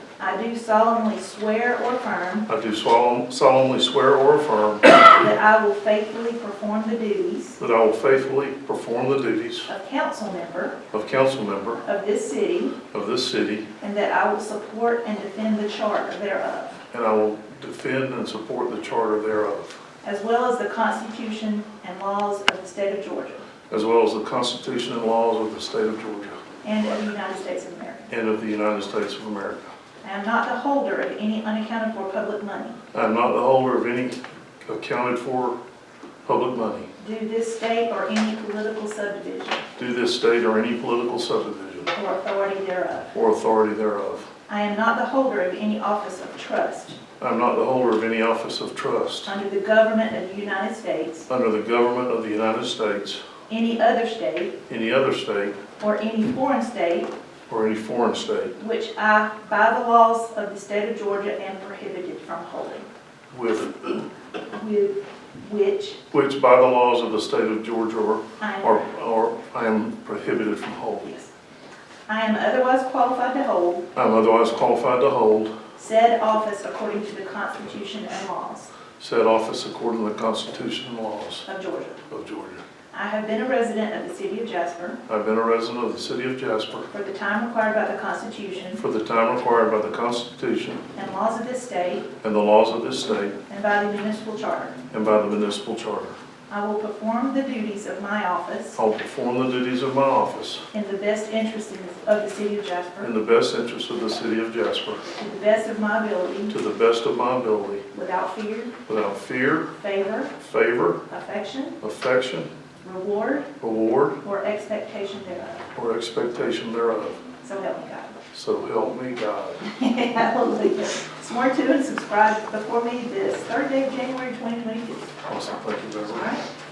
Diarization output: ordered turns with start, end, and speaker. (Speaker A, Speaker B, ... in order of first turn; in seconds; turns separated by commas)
Speaker A: 0.2-2.5, Speaker B: 2.5-5.0, Speaker A: 5.0-7.6, Speaker B: 7.6-9.7, Speaker A: 9.7-10.8, Speaker B: 10.9-11.8, Speaker A: 11.8-12.8, Speaker B: 12.9-13.7, Speaker A: 13.8-16.8, Speaker B: 16.9-19.8, Speaker A: 20.0-23.4, Speaker B: 23.7-26.4, Speaker A: 26.6-28.1, Speaker B: 28.1-29.7, Speaker A: 30.0-32.8, Speaker B: 32.9-35.6, Speaker B: 36.3-36.9, Speaker A: 37.0-39.6, Speaker B: 39.8-41.9, Speaker A: 41.9-43.1, Speaker B: 43.1-44.3, Speaker A: 44.5-47.0, Speaker B: 47.2-49.3, Speaker A: 49.3-51.3, Speaker B: 51.3-53.3, Speaker A: 53.5-54.5, Speaker B: 54.7-55.6, Speaker A: 55.8-57.1, Speaker B: 57.5-58.5, Speaker A: 58.6-62.9, Speaker B: 63.3-64.0, Speaker A: 64.5-66.0, Speaker B: 66.1-71.1, Speaker A: 68.4-68.8, Speaker A: 71.0-71.3, Speaker A: 72.1-73.9, Speaker B: 74.0-75.6, Speaker A: 75.8-78.7, Speaker B: 79.0-81.5, Speaker A: 81.5-82.0, Speaker B: 82.1-82.6, Speaker A: 82.9-85.0, Speaker B: 85.1-86.9, Speaker A: 86.9-88.8, Speaker B: 88.8-90.8, Speaker A: 91.0-92.1, Speaker B: 92.2-93.4, Speaker A: 93.5-94.8, Speaker B: 94.9-96.2, Speaker A: 96.5-98.8, Speaker B: 98.8-100.7, Speaker A: 100.7-103.1, Speaker B: 103.0-105.0, Speaker A: 105.2-106.5, Speaker B: 106.5-107.9, Speaker A: 107.9-108.7, Speaker B: 108.9-109.8, Speaker A: 109.8-110.3, Speaker B: 110.4-111.0, Speaker A: 111.1-111.8, Speaker B: 111.8-112.5, Speaker A: 112.8-113.5, Speaker B: 113.6-114.2, Speaker A: 114.2-115.6, Speaker B: 115.8-117.2, Speaker A: 117.4-118.1, Speaker B: 118.3-119.6, Speaker A: 119.6-125.1, Speaker B: 125.2-126.3, Speaker A: 126.1-126.4